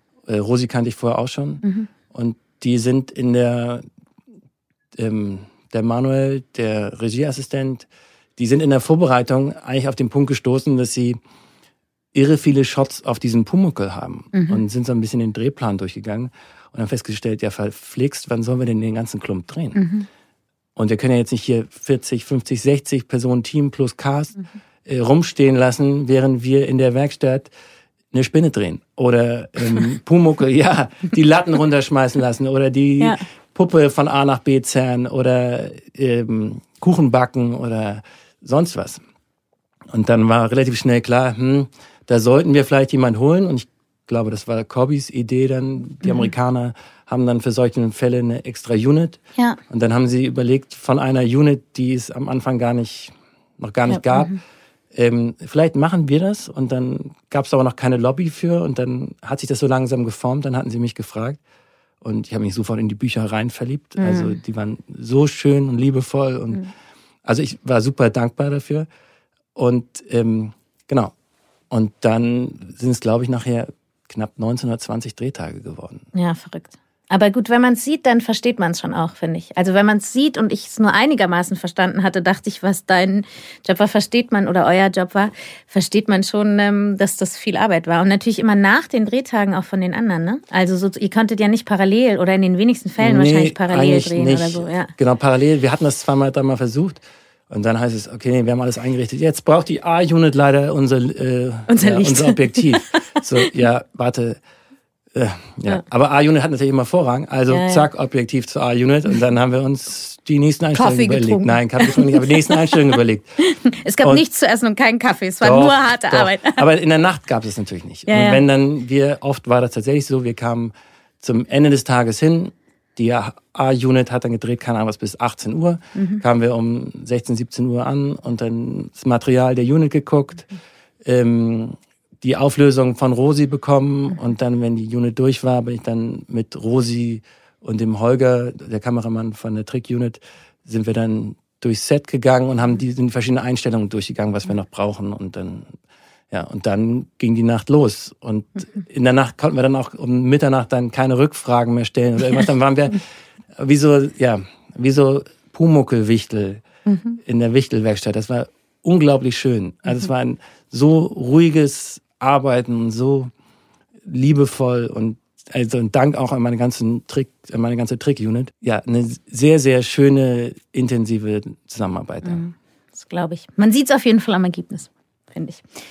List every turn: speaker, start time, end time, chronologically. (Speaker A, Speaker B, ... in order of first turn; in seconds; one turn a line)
Speaker A: 0.2-3.8
Speaker A: 4.9-11.2
Speaker A: 12.1-19.8
Speaker B: 14.3-14.6
Speaker B: 19.7-20.1
Speaker A: 20.8-27.5
Speaker A: 28.1-39.0
Speaker A: 39.9-49.2
Speaker A: 49.7-54.4
Speaker B: 53.9-54.4
Speaker A: 54.9-61.4
Speaker A: 62.0-66.7
Speaker B: 64.0-64.3
Speaker A: 67.2-68.9
Speaker A: 69.5-71.1
Speaker A: 71.7-76.1
Speaker B: 76.1-94.9
Speaker A: 93.0-104.4
Speaker B: 101.7-103.2
Speaker A: 105.1-113.4
Speaker B: 107.5-107.8
Speaker B: 110.7-112.2
Speaker B: 113.4-116.6
Speaker A: 115.4-130.5
Speaker B: 118.1-118.4
Speaker B: 125.9-126.2
Speaker A: 131.0-145.7
Speaker A: 146.3-153.0
Speaker A: 153.6-156.6
Speaker A: 157.1-163.3
Speaker A: 164.0-172.4
Speaker B: 172.2-175.6